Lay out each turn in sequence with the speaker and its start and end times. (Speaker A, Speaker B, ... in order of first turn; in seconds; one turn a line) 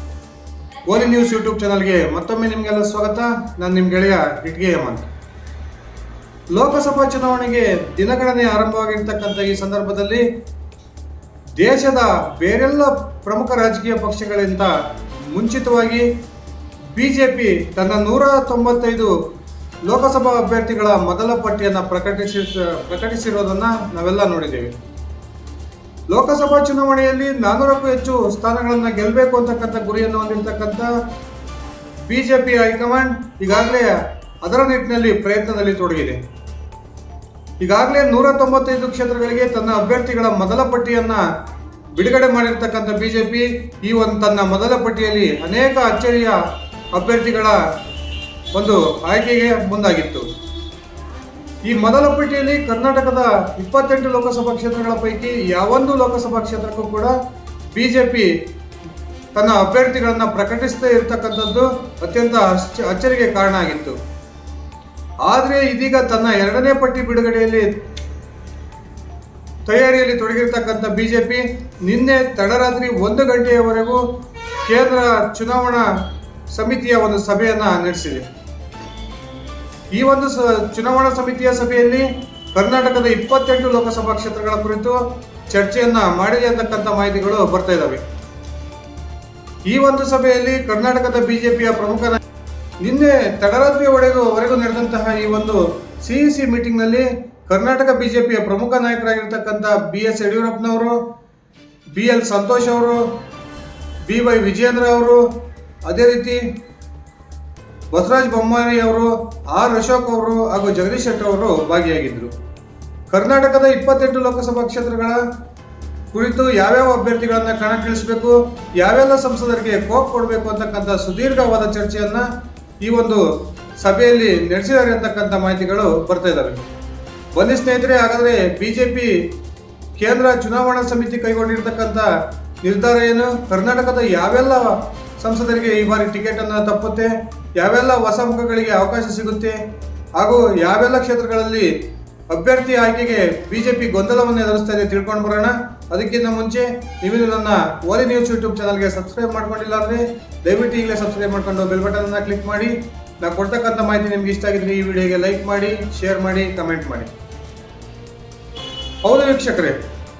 Speaker A: 0.8-5.0
Speaker A: 6.5-10.2
Speaker A: 11.6-14.7
Speaker A: 15.3-16.1
Speaker A: 16.9-19.1
Speaker A: 19.9-24.7
Speaker A: 26.1-30.9
Speaker A: 32.1-36.2
Speaker A: 37.6-41.2
Speaker A: 41.9-46.4
Speaker A: 46.9-47.6
Speaker A: 48.5-50.2
Speaker A: 51.7-57.1
Speaker A: 57.7-58.3
Speaker A: 59.3-64.0
Speaker A: 65.2-67.7
Speaker A: 69.7-74.0
Speaker A: 74.6-75.9
Speaker A: 76.5-78.2
Speaker A: 79.9-88.0
Speaker A: 89.7-92.2
Speaker A: 92.8-101.0
Speaker A: 101.9-103.0
Speaker A: 104.0-105.2
Speaker A: 105.8-106.4
Speaker A: 107.9-112.3
Speaker A: 113.1-115.2
Speaker A: 116.1-122.3
Speaker A: 122.8-123.2
Speaker A: 123.8-126.6
Speaker A: 127.3-129.2
Speaker A: 130.0-132.1
Speaker A: 132.6-139.6
Speaker A: 140.2-141.7
Speaker A: 142.3-157.1
Speaker A: 159.0-159.8